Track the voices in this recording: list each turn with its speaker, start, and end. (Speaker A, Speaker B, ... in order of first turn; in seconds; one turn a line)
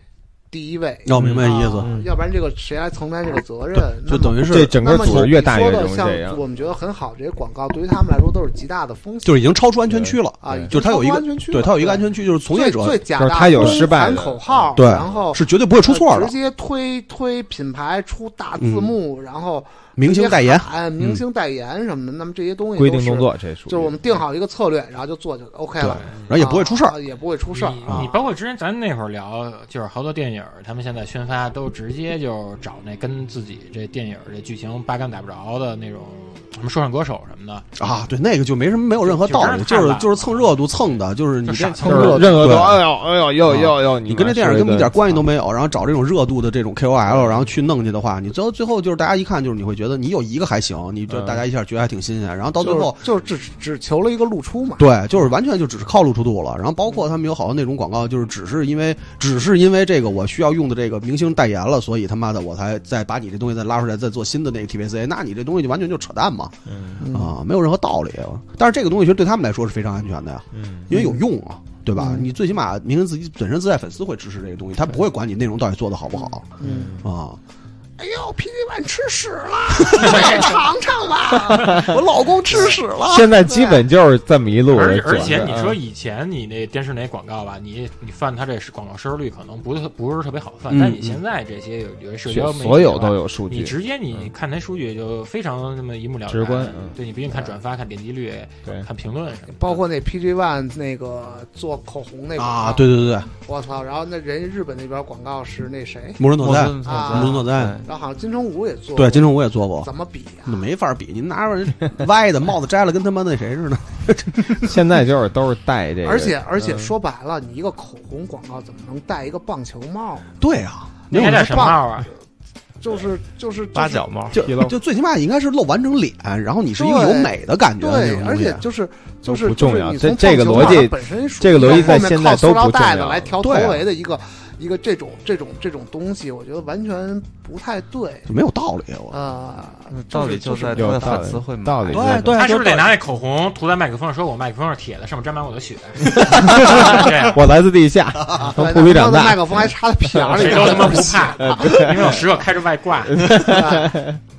Speaker A: 0.5-9.5
Speaker B: 1.1-1.9
Speaker C: 1.1-2.1
Speaker B: 3.8-5.3
Speaker C: 4.5-6.4
Speaker B: 9.2-13.8
Speaker C: 9.9-10.7
Speaker A: 10.4-28.2
Speaker C: 13.2-14.9
Speaker B: 14.8-16.3
Speaker B: 18.6-18.9
Speaker B: 20.0-21.2
Speaker C: 22.8-23.9
Speaker B: 25.8-27.0
Speaker D: 27.5-37.6
Speaker B: 37.8-42.8
Speaker D: 39.0-40.5
Speaker D: 41.5-42.4
Speaker A: 41.8-42.5
Speaker C: 41.8-45.2
Speaker B: 43.5-53.0
Speaker C: 47.1-47.4
Speaker C: 51.1-51.4
Speaker A: 52.6-54.9
Speaker B: 54.8-66.5
Speaker C: 66.7-67.0
Speaker A: 67.0-67.3
Speaker B: 67.1-77.4
Speaker C: 70.5-70.9
Speaker A: 70.9-71.2
Speaker A: 72.0-72.3
Speaker A: 76.6-77.0
Speaker C: 76.6-77.1
Speaker A: 78.0-82.0
Speaker B: 79.8-80.5
Speaker C: 81.7-81.9
Speaker B: 81.7-83.3
Speaker A: 82.5-82.8
Speaker C: 83.0-85.8
Speaker A: 83.5-83.8
Speaker D: 84.7-99.8
Speaker B: 90.7-91.2
Speaker C: 92.3-94.3
Speaker C: 96.3-97.0
Speaker A: 99.5-106.2
Speaker B: 102.4-103.3
Speaker B: 106.2-107.8
Speaker E: 106.4-107.9
Speaker A: 106.8-110.6
Speaker B: 109.0-109.9
Speaker B: 110.5-114.7
Speaker C: 114.6-116.9
Speaker A: 116.0-120.3
Speaker B: 120.4-121.8
Speaker A: 121.1-121.8
Speaker D: 121.1-122.1
Speaker A: 122.8-124.1
Speaker E: 123.7-124.4
Speaker B: 124.3-128.6
Speaker C: 124.4-124.8
Speaker A: 126.8-138.3
Speaker C: 129.3-133.3
Speaker B: 131.6-132.0
Speaker B: 133.4-133.8
Speaker B: 138.3-139.2
Speaker A: 139.1-141.3
Speaker E: 139.9-142.3
Speaker C: 140.8-142.4
Speaker B: 141.9-142.9
Speaker D: 142.3-147.4
Speaker C: 146.1-152.2
Speaker B: 148.2-148.5
Speaker A: 148.6-151.9
Speaker D: 150.4-153.4
Speaker C: 153.1-154.2
Speaker A: 153.4-153.9